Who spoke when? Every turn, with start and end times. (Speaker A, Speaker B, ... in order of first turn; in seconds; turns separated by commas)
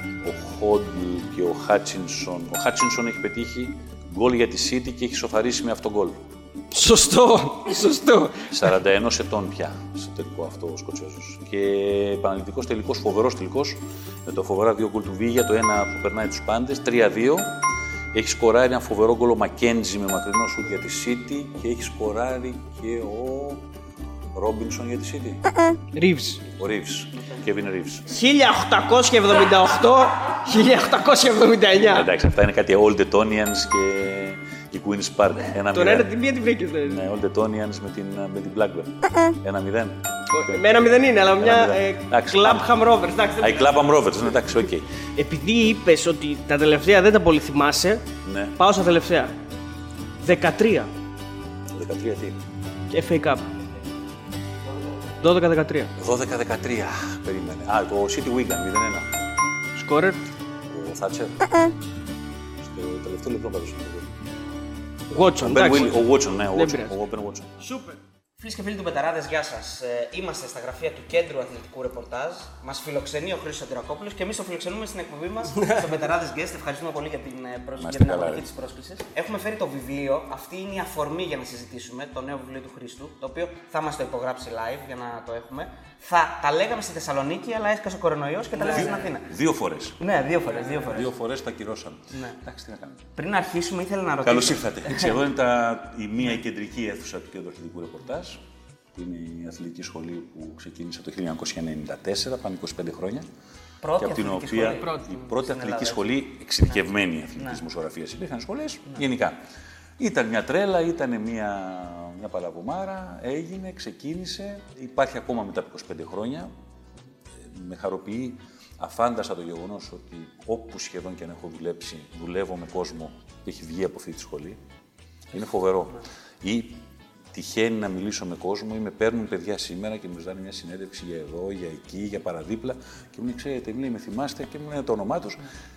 Speaker A: 0.2-6.2, Speaker B: 6.7-8.6, Speaker A: 8.5-17.6, Speaker A: 18.1-23.6, Speaker A: 24.3-25.4, Speaker B: 25.9-26.4, Speaker A: 26.4-28.1, Speaker B: 28.1-32.1, Speaker A: 31.9-36.1, Speaker B: 35.7-37.0, Speaker A: 36.8-42.8, Speaker B: 40.3-43.8, Speaker A: 43.4-44.9, Speaker B: 45.2-48.0, Speaker A: 48.2-48.6, Speaker B: 48.6-49.3, Speaker B: 50.2-50.9, Speaker A: 51.7-52.4, Speaker B: 52.9-53.5, Speaker B: 55.2-55.9, Speaker A: 56.0-59.2, Speaker B: 59.8-60.2, Speaker A: 60.6-61.7, Speaker A: 62.6-64.2, Speaker B: 65.1-67.0, Speaker A: 65.4-67.5, Speaker B: 67.6-68.0, Speaker C: 68.4-89.3, Speaker A: 77.8-78.5, Speaker B: 88.6-89.1, Speaker A: 88.6-90.0, Speaker C: 90.0-91.1, Speaker A: 90.7-93.0, Speaker C: 93.2-95.2, Speaker A: 94.2-98.4, Speaker A: 98.9-103.3, Speaker C: 103.8-106.1, Speaker A: 104.0-109.4, Speaker B: 104.7-105.1, Speaker A: 110.0-116.5, Speaker A: 117.4-124.6, Speaker A: 125.3-135.5